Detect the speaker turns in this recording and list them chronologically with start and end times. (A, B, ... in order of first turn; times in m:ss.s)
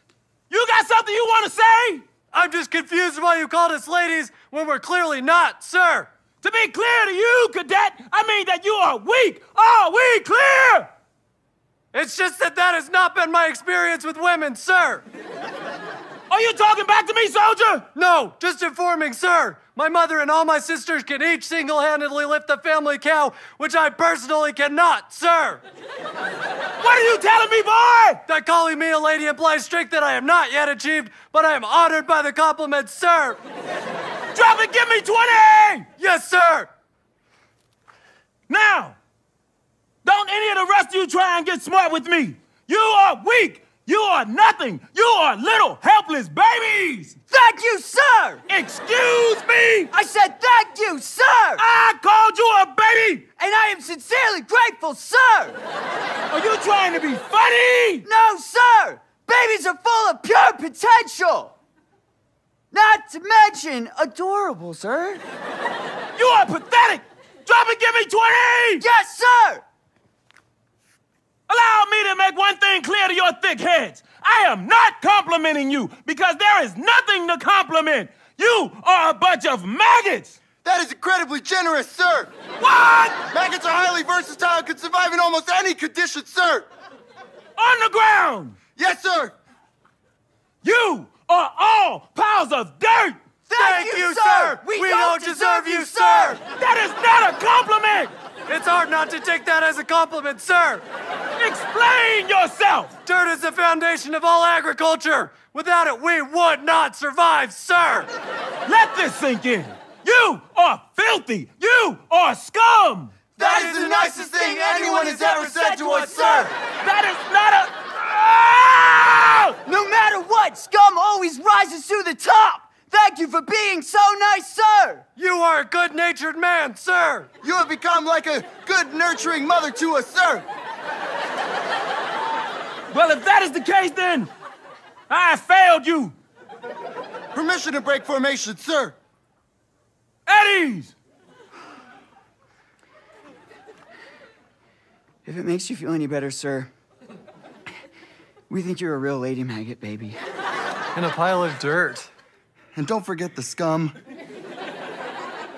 0:00.5-0:02.0 A
0:02.3-0:06.1 B
0:06.4-0:10.9 A
0:11.9-0:15.0 B
0:16.3-0:17.8 A
0:17.9-0:25.6 B
0:26.8-0:28.2 A
0:28.3-0:33.4 B
0:34.3-0:35.9 A
0:36.0-0:36.7 B
0:38.5-0:39.0 A
0:40.0-0:47.1 A
0:47.3-0:48.4 C
0:48.5-0:49.9 A
0:49.9-0:51.6 C
0:51.6-0:53.2 A
0:53.4-0:55.6 C
0:56.3-0:58.0 A
0:58.0-1:01.5 C
1:02.7-1:05.2 C
1:06.1-1:08.8 A
1:08.8-1:09.6 C
1:11.5-1:20.4 A
1:20.6-1:22.3 D
1:22.6-1:23.2 A
1:23.3-1:26.7 D
1:27.6-1:28.6 A
1:28.8-1:29.3 D
1:30.6-1:33.2 A
1:33.5-1:36.4 C
1:33.6-1:36.4 B
1:36.5-1:38.1 A
1:38.5-1:40.8 B
1:41.4-1:42.9 A
1:43.0-1:48.1 B
1:48.6-1:53.1 A
1:53.4-1:56.5 D
1:53.4-1:56.5 B
1:54.2-1:56.5 C
1:56.8-1:59.6 A
1:59.6-2:05.0 C
2:05.2-2:07.3 B
2:07.4-2:10.4 D
2:12.9-2:14.3 A
2:15.1-2:16.1 A
2:17.3-2:19.0 D
2:20.3-2:20.9 A
2:25.2-2:26.7 C
2:28.5-2:30.2 C
2:30.9-2:32.1 B
2:32.8-2:34.0 D